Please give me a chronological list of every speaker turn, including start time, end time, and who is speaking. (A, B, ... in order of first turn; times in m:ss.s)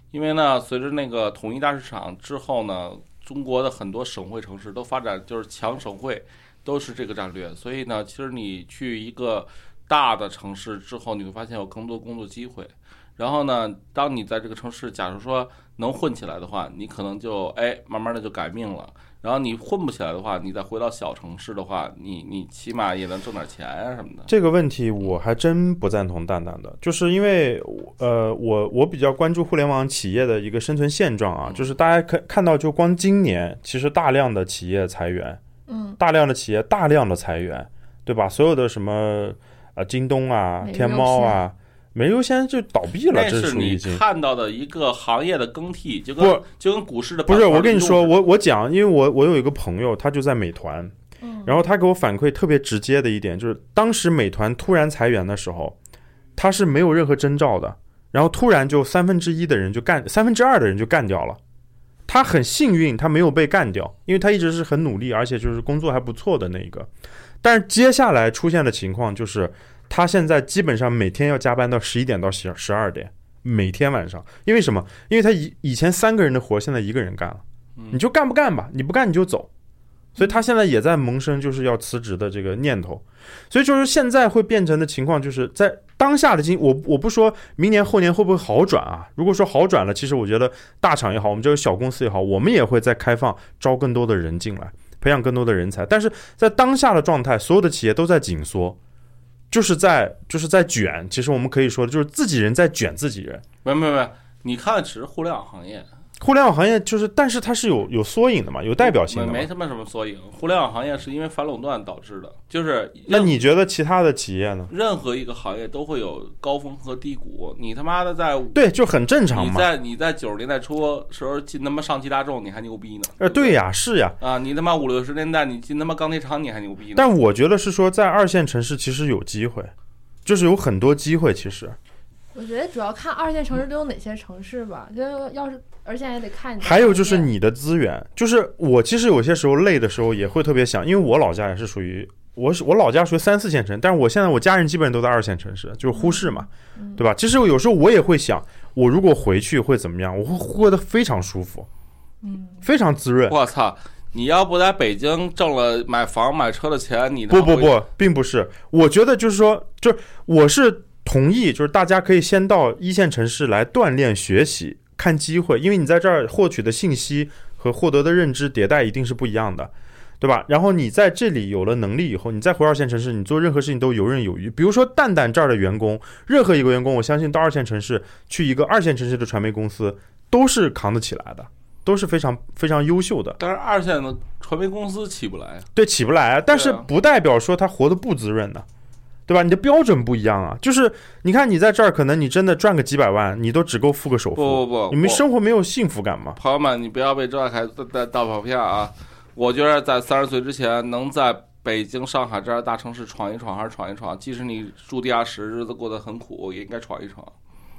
0:00.1-0:24.3 A
0:24.3-0:35.4 B
0:35.7-0:36.0 C
0:36.0-0:44.0 B
0:40.6-0:41.4 C
0:43.1-0:48.2 A
0:47.3-0:50.9 B
0:51.2-0:51.6 C
0:51.4-0:55.8 B
0:56.4-1:01.4 B
1:02.1-1:06.9 B
1:07.4-1:19.5 B
1:20.2-1:38.8 B
1:39.5-1:43.4 B
1:43.6-1:45.9 A
1:46.2-1:49.5 B
1:48.8-1:53.3 A
1:53.1-1:54.7 B
1:54.7-1:58.6 A
1:58.5-1:59.7 B
1:59.3-2:03.6 A
2:03.2-2:04.2 B
2:04.2-2:07.1 A
2:07.0-2:09.7 B
2:10.2-2:11.8 B
2:12.3-2:17.3 C
2:16.6-2:31.7 B
2:25.9-2:27.0 C
2:32.2-2:32.6 C
2:32.6-2:33.3 B
2:33.3-2:37.8 A
2:37.3-3:03.4 B
3:03.4-3:05.7 A
3:05.7-3:08.6 B
3:06.5-3:06.9 A
3:09.3-3:16.4 B
3:14.3-3:15.2 A
3:16.4-3:27.3 A